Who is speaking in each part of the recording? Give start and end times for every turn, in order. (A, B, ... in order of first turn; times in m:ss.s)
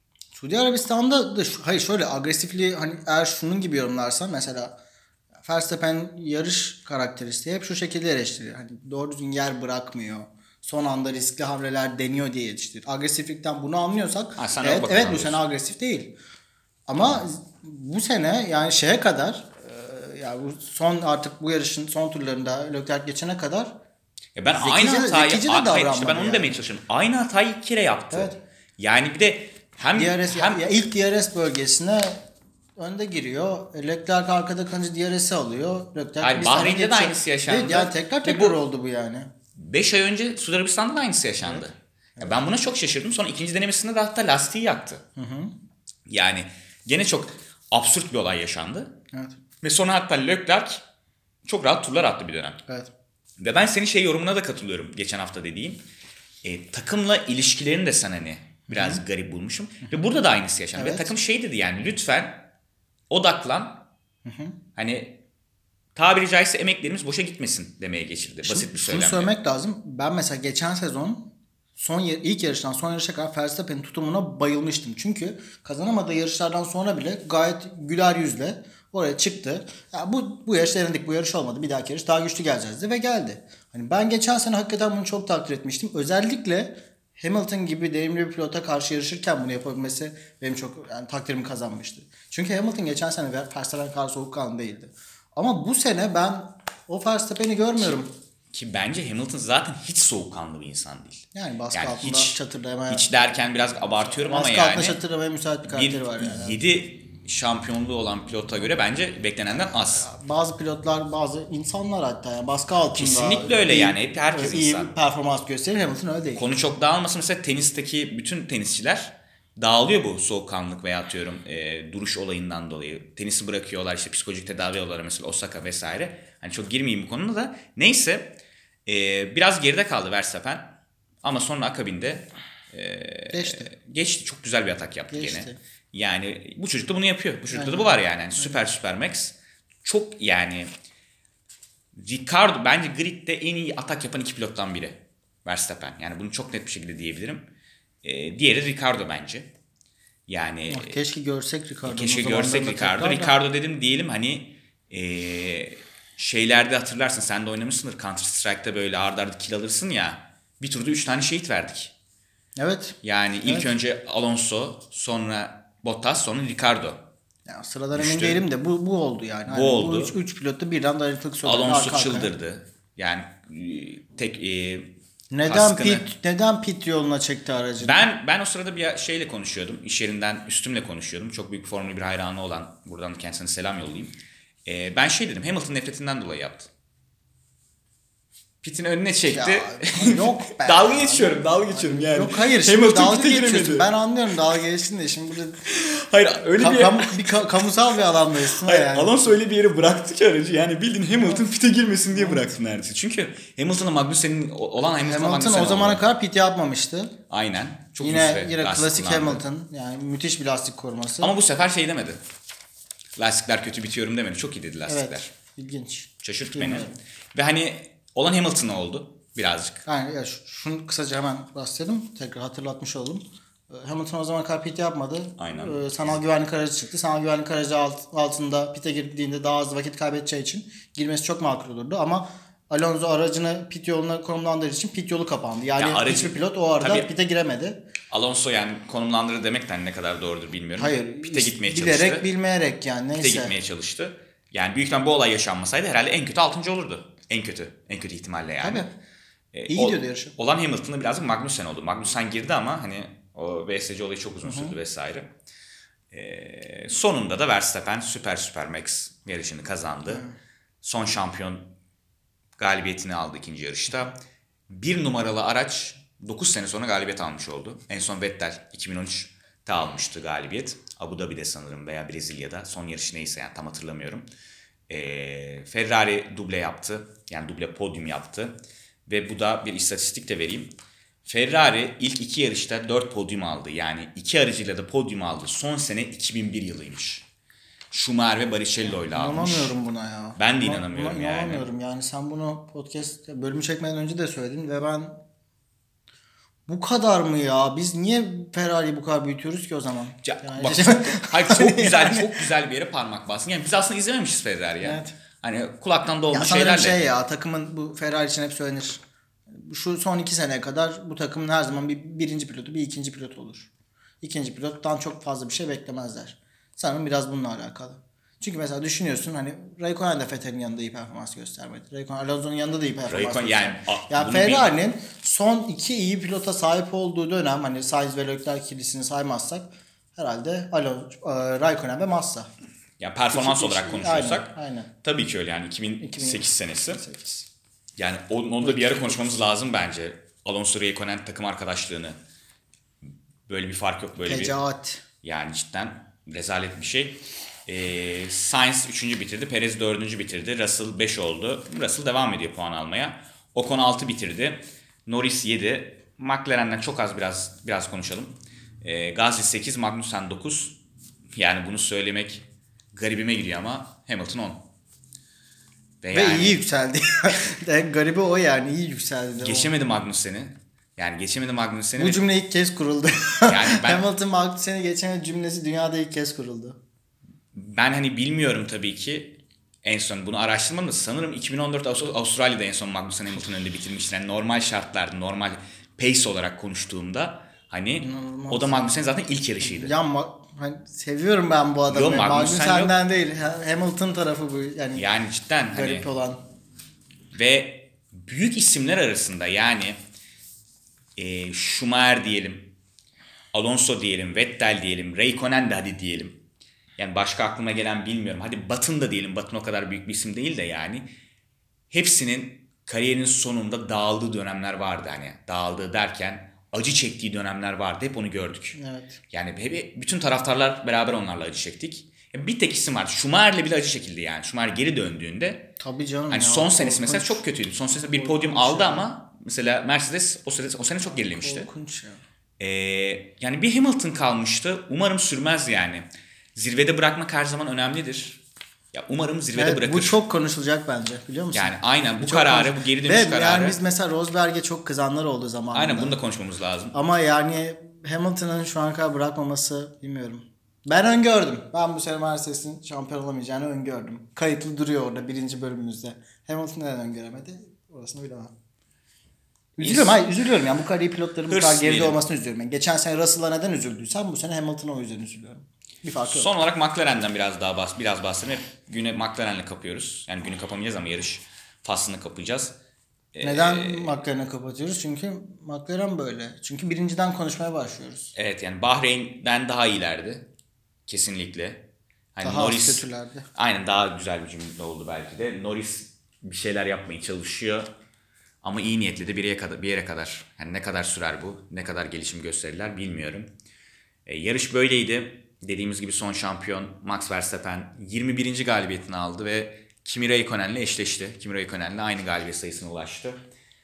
0:00.3-0:04.8 A
0:05.4-0:16.1 A
0:14.4-0:15.4 B
0:16.9-0:23.8 A
0:24.4-0:30.6 B
0:24.5-0:26.5 A
0:30.0-0:32.2 A
0:32.8-0:39.3 A
0:36.2-0:38.6 B
0:39.6-0:45.0 B
0:42.2-0:42.4 A
0:45.2-0:45.5 A
0:46.1-0:49.0 B
0:49.1-0:49.4 A
0:49.6-0:50.8 B
0:51.5-0:52.6 B
0:53.4-0:55.8 B
0:56.4-1:02.5 B
0:58.7-0:59.0 A
1:00.8-1:01.1 A
1:03.1-1:03.8 B
1:04.2-1:04.6 A
1:04.8-1:05.2 B
1:06.0-1:09.3 B
1:08.4-1:38.1 A
1:37.8-1:42.4 B
1:41.3-1:43.1 A
1:42.9-1:45.0 B
1:44.1-1:46.6 A
1:45.7-1:50.1 B
1:49.5-1:56.4 A
1:52.9-1:54.9 B
1:56.4-2:20.7 B
2:13.3-2:13.7 A
2:15.1-2:15.6 A
2:17.5-2:18.6 A
2:22.0-2:27.5 B
2:28.0-2:29.5 B
2:30.3-2:31.0 B
2:30.7-2:33.3 A
2:31.8-2:41.9 B
2:42.6-2:43.7 A
2:43.0-2:47.0 B
2:47.5-2:52.3 A
2:47.9-2:48.4 B
2:49.5-2:50.2 B
2:51.4-2:56.1 B
2:55.3-2:58.1 A
2:57.8-3:04.1 B
3:04.7-3:06.7 B
3:08.6-3:13.9 B
3:09.3-3:15.6 A
3:15.7-3:17.4 B
3:16.6-3:19.2 A
3:18.5-3:26.0 B
3:21.1-3:21.4 A
3:22.1-3:22.5 A
3:25.0-3:27.1 A
3:27.3-3:29.4 B
3:28.0-3:31.4 A
3:31.2-3:32.2 B
3:33.2-3:35.3 B
3:34.9-3:37.0 A
3:36.2-3:39.8 B
3:39.9-3:57.8 A
3:45.4-3:46.2 B
3:55.8-3:57.1 B
3:58.1-4:02.3 B
4:00.8-4:03.5 A
4:03.2-4:08.9 B
4:08.6-4:08.9 A
4:09.5-4:15.3 B
4:09.7-4:10.3 A
4:14.4-4:14.8 A
4:16.1-4:20.2 B
4:20.1-4:20.3 A
4:20.8-4:21.7 B
4:22.6-4:24.1 B
4:24.7-4:34.3 B
4:34.9-4:40.7 B
4:41.3-4:47.3 B
4:47.9-4:49.7 B
4:48.9-4:55.2 A
4:50.4-4:51.7 B
4:56.7-5:02.5 A
5:00.2-5:07.0 B
5:04.8-5:05.1 A
5:06.3-5:13.7 A
5:14.2-5:32.5 A
5:23.1-5:24.7 B
5:33.0-5:37.0 B
5:33.3-5:34.9 A
5:36.0-5:37.5 A
5:38.0-5:42.2 B
5:38.6-5:39.2 A
5:43.5-5:44.6 B
5:44.2-5:45.0 A
5:45.2-6:00.8 B
6:01.4-6:04.6 B
6:06.0-6:06.6 B
6:06.1-6:09.7 A
6:09.4-6:12.2 B
6:12.0-6:16.8 A
6:13.4-6:14.0 B
6:17.5-6:29.9 B
6:28.0-6:29.0 A
6:29.6-6:35.0 A
6:31.9-6:33.0 B
6:35.0-6:36.1 B
6:35.7-6:36.4 A
6:37.3-6:40.0 B
6:41.2-6:42.7 B
6:43.5-6:46.4 B
6:47.0-6:51.1 B
6:51.9-6:58.8 B
6:58.8-6:59.2 A
6:59.3-7:05.7 B
7:05.8-7:07.4 A
7:06.3-7:11.7 B
7:08.0-7:09.1 A
7:11.1-7:12.2 A
7:12.6-7:18.4 B
7:18.9-7:20.2 B
7:19.6-7:26.2 A
7:21.5-7:23.8 B
7:25.7-7:27.0 B
7:26.9-7:38.5 A
7:39.8-7:46.5 A
7:39.8-7:40.2 B
7:41.5-7:42.2 B
7:46.2-7:52.8 B
7:53.3-7:54.2 B
7:53.4-7:58.3 A
7:58.3-8:00.5 B
8:01.1-8:07.9 B
8:02.4-8:03.5 A
8:08.6-8:13.5 B
8:14.3-8:23.4 B